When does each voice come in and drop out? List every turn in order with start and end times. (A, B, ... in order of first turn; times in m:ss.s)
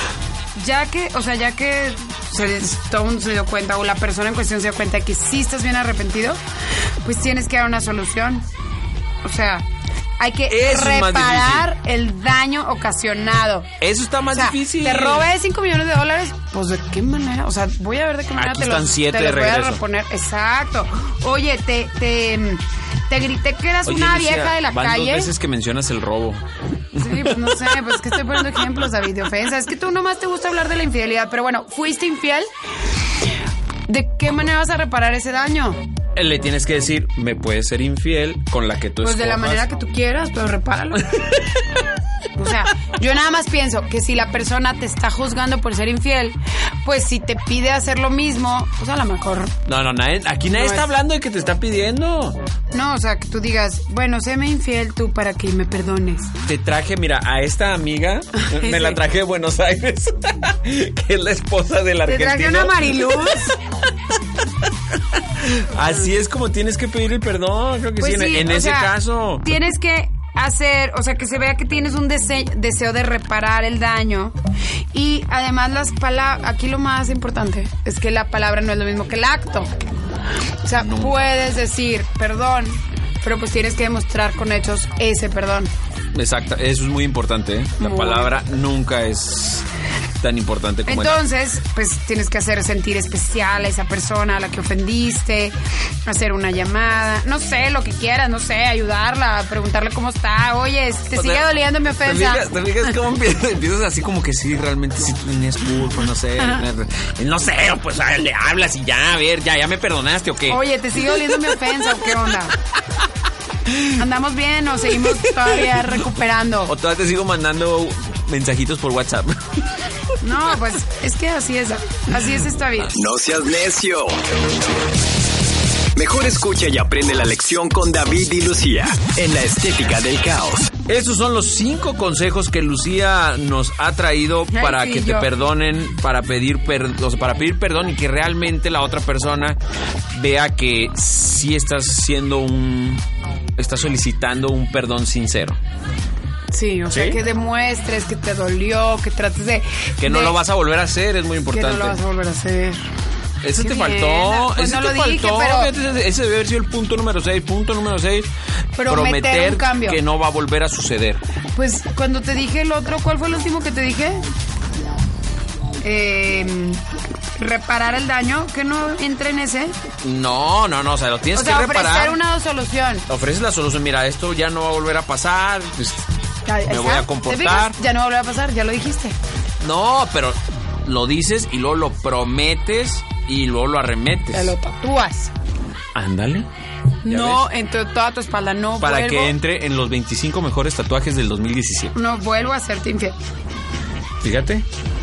0:00.6-0:06.4 A
0:07.0-0:08.5 A
0:09.2-0:09.7 A
0:10.2-0:13.7 A
0:10.5-0:11.7 B
0:13.8-0:15.3 B
0:14.3-0:25.3 A
0:18.4-0:19.8 B
0:23.9-0:26.4 B
0:26.9-0:28.8 B
0:27.0-0:32.5 A
0:33.9-0:35.8 A
0:36.2-0:39.7 B
0:39.0-0:41.2 A
0:41.1-0:41.5 B
0:42.4-0:49.5 A
0:49.7-0:52.4 B
0:50.5-0:50.9 A
0:52.7-0:56.3 A
0:56.5-1:03.3 B
0:58.4-0:59.0 A
1:02.1-1:03.6 A
1:04.7-1:09.6 B
1:08.0-1:14.4 A
1:14.9-1:19.7 A
1:20.6-1:25.7 A
1:20.8-1:21.3 B
1:26.1-1:29.7 B
1:27.8-1:28.3 A
1:30.2-1:31.2 B
1:30.9-1:42.5 A
1:41.2-1:52.1 B
1:50.5-1:52.6 A
1:53.7-1:54.0 B
1:54.0-1:56.7 A
1:55.0-1:56.0 B
1:56.7-1:59.8 B
2:00.2-2:02.9 A
2:02.9-2:04.2 C
2:06.0-2:10.7 C
2:10.9-2:19.6 B
2:14.5-2:15.3 A
2:20.1-2:23.0 B
2:23.6-2:25.6 B
2:26.5-2:30.4 A
2:26.9-2:27.2 B
2:30.0-2:32.0 B
2:31.5-2:32.8 A
2:33.4-2:38.3 B
2:33.6-2:35.7 A
2:38.8-2:40.0 A
2:38.9-2:41.2 B
2:41.6-2:44.2 A
2:45.8-2:46.8 A
2:47.4-2:49.8 A
2:50.0-2:52.2 B
2:51.4-2:53.1 A
2:53.1-2:56.0 B
2:56.5-2:59.2 A
2:56.7-2:57.8 B
2:59.6-3:04.6 B
3:04.3-3:05.3 A
3:06.0-3:06.5 B
3:07.0-3:09.3 A
3:07.1-3:07.4 B
3:08.8-3:11.9 B
3:12.0-3:13.2 A
3:14.2-3:14.6 B